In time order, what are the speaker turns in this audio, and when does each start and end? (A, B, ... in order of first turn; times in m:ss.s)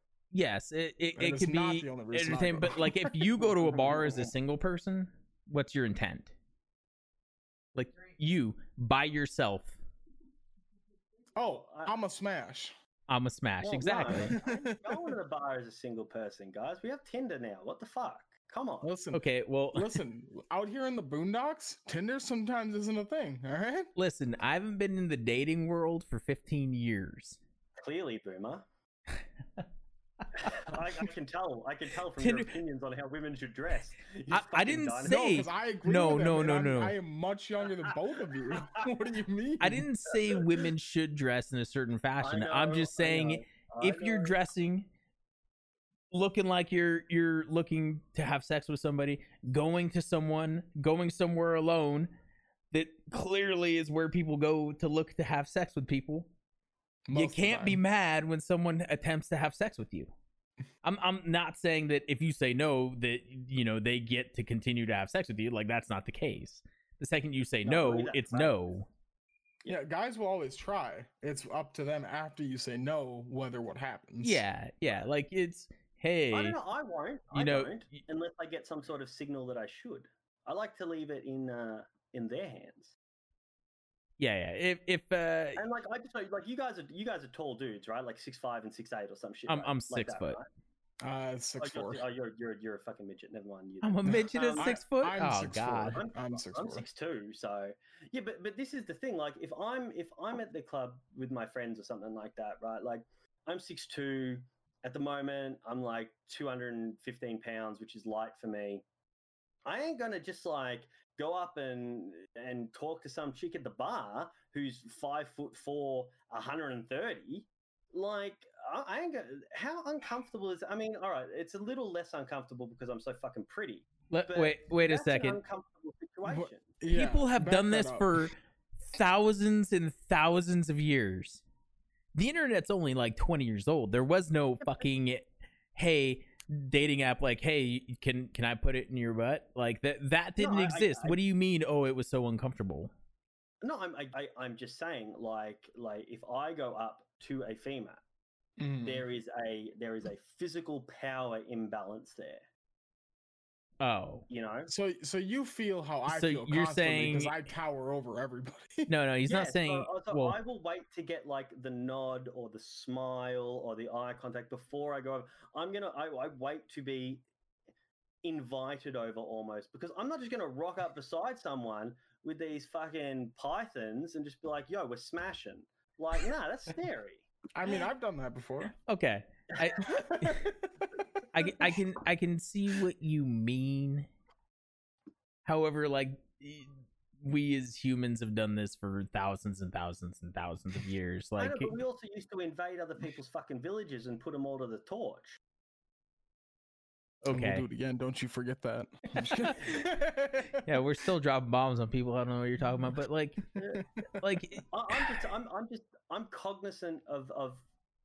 0:00.3-0:06.3 A
0:01.1-0:03.5 B
0:03.6-0:04.3 C
0:07.7-0:09.8 A
0:11.4-0:12.7 B
0:11.4-0:12.0 C
0:13.1-0:14.4 A
0:13.6-0:18.9 C
0:14.3-0:15.1 B
0:18.8-0:23.9 B
0:19.1-0:20.0 A
0:24.0-0:27.4 A
0:27.8-0:28.6 C
0:30.4-0:35.5 C
0:32.2-0:32.6 A
0:34.3-0:36.9 A
0:35.0-0:39.9 B
0:38.5-0:38.9 C
0:39.6-0:44.9 A
0:40.1-0:40.6 C
0:42.2-0:44.3 C
0:46.1-0:52.1 A
0:52.7-0:56.3 A
0:57.1-0:57.8 B
0:57.1-1:00.1 A
1:00.8-1:08.9 A
1:07.6-1:08.6 C
1:09.7-1:14.4 B
1:14.2-1:16.6 A
1:16.3-1:23.0 C
1:17.3-1:18.0 A
1:24.2-1:25.6 A
1:25.6-1:30.4 C
1:29.5-1:30.4 A
1:31.0-1:32.0 B
1:31.6-1:34.8 C
1:33.8-1:36.0 A
1:34.1-1:36.8 B
1:35.9-1:48.8 C
1:49.6-2:06.7 C
2:04.1-2:05.4 A
2:06.2-2:08.2 B
2:06.9-2:11.4 A
2:12.1-2:22.9 A
2:20.4-2:21.2 C
2:23.6-2:28.0 C
2:28.6-2:29.0 B
2:28.8-2:32.4 C
2:33.8-2:34.2 A
2:34.3-2:34.7 C
2:34.7-2:38.9 B
2:36.1-2:37.4 A
2:38.9-2:40.4 A
2:39.2-2:47.2 C
2:48.2-2:57.3 C
2:57.5-2:58.8 B
2:58.9-3:00.4 A
3:00.0-3:01.0 B
3:01.3-3:04.1 A
3:05.4-3:11.8 A
3:11.4-3:15.4 C
3:17.2-3:17.6 A
3:17.3-3:20.6 B
3:20.6-3:23.4 A
3:23.6-3:23.8 C
3:23.7-3:24.2 B
3:24.2-3:25.2 A
3:24.7-3:27.6 C